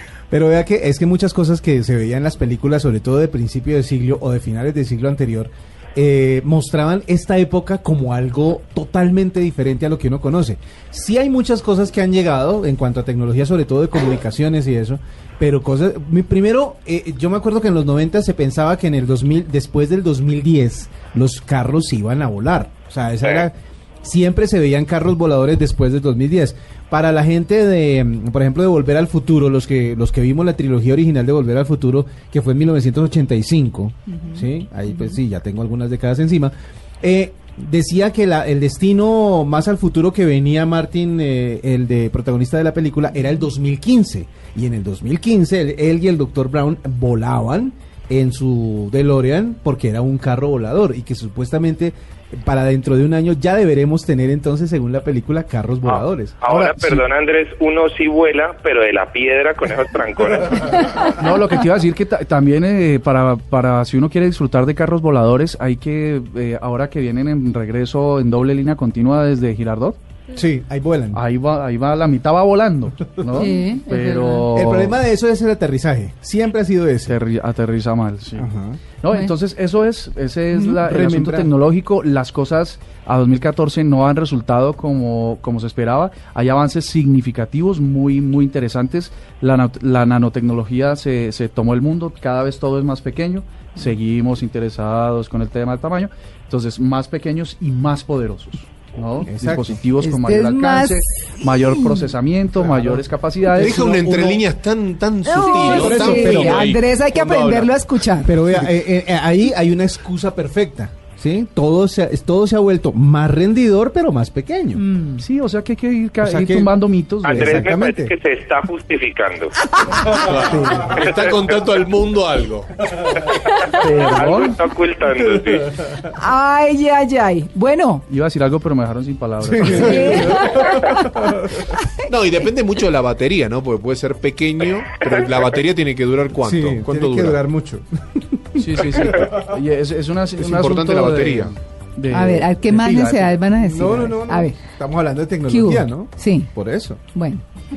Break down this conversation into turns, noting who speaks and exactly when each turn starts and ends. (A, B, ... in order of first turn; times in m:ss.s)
0:00.3-0:57.0 A
0:23.2-0:23.5 B
0:55.8-1:01.0 B
1:01.0-1:10.0 C
1:10.3-1:11.2 A
1:11.1-1:15.0 C
1:13.3-1:14.5 D
1:14.5-1:17.2 A
1:17.1-1:44.2 C
1:18.4-1:18.8 A
1:20.5-1:21.5 A
1:39.3-1:39.8 A
1:40.0-1:42.1 D
1:42.6-1:43.0 A
1:43.5-1:47.7 E
1:43.6-1:44.4 A
1:45.2-1:48.4 D
1:45.5-1:46.6 A
1:48.2-1:54.8 A
1:54.8-1:55.2 D
1:55.2-1:57.7 C
1:56.2-1:56.8 A
1:57.2-1:59.5 B
1:57.3-1:58.1 A
2:00.1-2:03.0 E
2:00.5-2:01.0 A
2:00.9-2:01.5 B
2:03.7-2:04.6 C
2:04.0-2:05.8 B
2:05.9-2:08.0 D
2:08.1-2:10.4 C
2:09.4-2:10.6 A
2:09.7-2:10.9 E
2:09.8-2:10.9 D
2:12.0-2:17.4 E
2:15.0-2:15.6 B
2:16.4-2:19.1 A
2:18.6-2:23.4 C
2:20.4-2:21.5 E
2:22.1-2:24.6 D
2:23.6-2:27.0 A
2:25.5-2:26.5 D
2:27.0-2:27.4 D